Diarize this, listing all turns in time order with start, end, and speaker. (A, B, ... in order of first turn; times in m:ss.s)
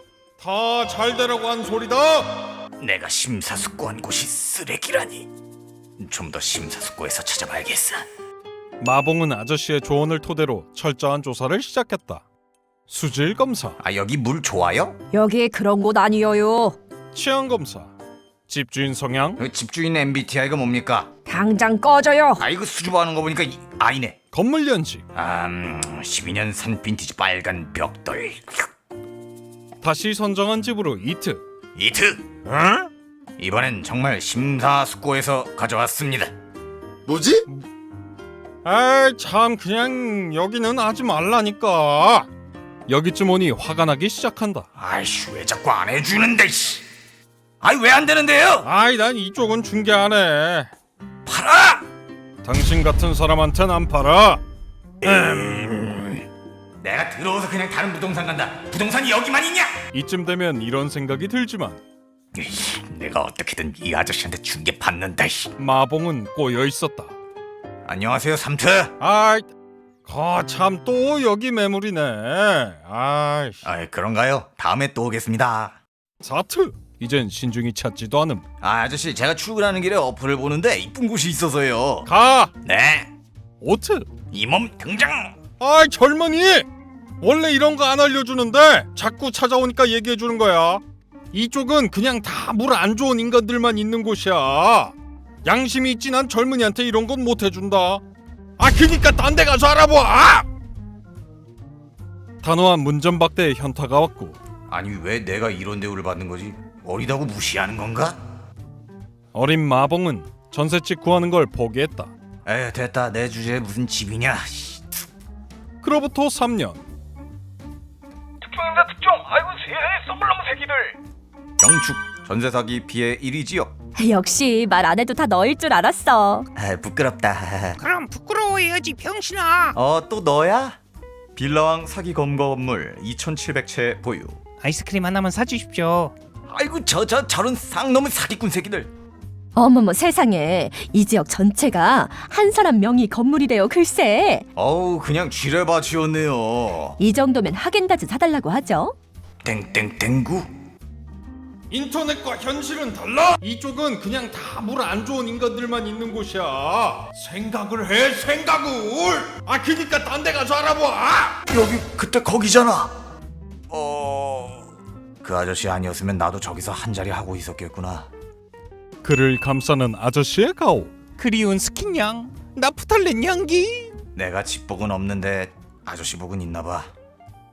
0:00.4-0:02.4 A
0:02.8-0:05.3 B
0:06.0-0:08.1 B
0:08.8-0:12.2 A
0:12.9-0:13.8 A
0:13.8-0:15.0 B
0:15.1-0:16.8 C
0:17.1-0:17.9 A
0:18.5-0:19.4 A
0:19.4-0:21.1 B
0:21.3-0:22.4 C
0:22.4-0:24.2 B
0:24.3-0:25.0 A
0:25.1-0:28.7 B
0:29.8-0:31.4 A
0:31.8-0:32.3 B
0:32.5-0:32.9 A
0:33.4-0:36.3 B
0:38.6-0:42.3 A
0:42.9-0:44.7 A
0:44.8-0:46.8 B
0:47.6-0:48.7 B
0:48.6-0:50.7 A
0:51.3-0:51.8 B
0:52.4-0:54.4 A
0:55.0-0:56.2 B
0:56.8-0:59.8 B
0:59.9-1:01.8 A
1:02.3-1:05.5 B
1:05.6-1:07.1 A
1:07.8-1:08.9 B
1:09.0-1:09.5 A
1:10.0-1:13.6 A
1:13.6-1:15.8 B
1:16.2-1:18.4 A
1:18.6-1:22.1 B
1:22.1-1:22.5 A
1:22.6-1:23.1 B
1:23.6-1:24.1 A
1:24.3-1:25.3 B
1:25.6-1:26.7 A
1:27.2-1:34.9 A
1:35.4-1:38.0 A
1:38.6-1:40.5 A
1:42.4-1:44.4 A
1:44.7-1:48.2 B
1:49.3-1:52.1 A
1:52.5-1:55.1 B
1:55.8-1:56.8 A
1:58.4-2:01.0 B
2:01.6-2:03.7 B
2:04.0-2:06.5 C
2:06.6-2:07.8 B
2:07.8-2:09.7 D
2:09.7-2:10.8 B
2:11.4-2:14.4 B
2:14.6-2:16.1 D
2:16.5-2:18.9 B
2:19.6-2:24.4 C
2:24.6-2:27.0 B
2:27.0-2:29.0 C
2:29.4-2:30.5 B
2:31.7-2:41.4 A
2:41.5-2:42.9 B
2:43.7-2:48.1 B
2:49.0-2:50.9 A
2:51.2-2:53.9 D
2:54.2-2:56.9 B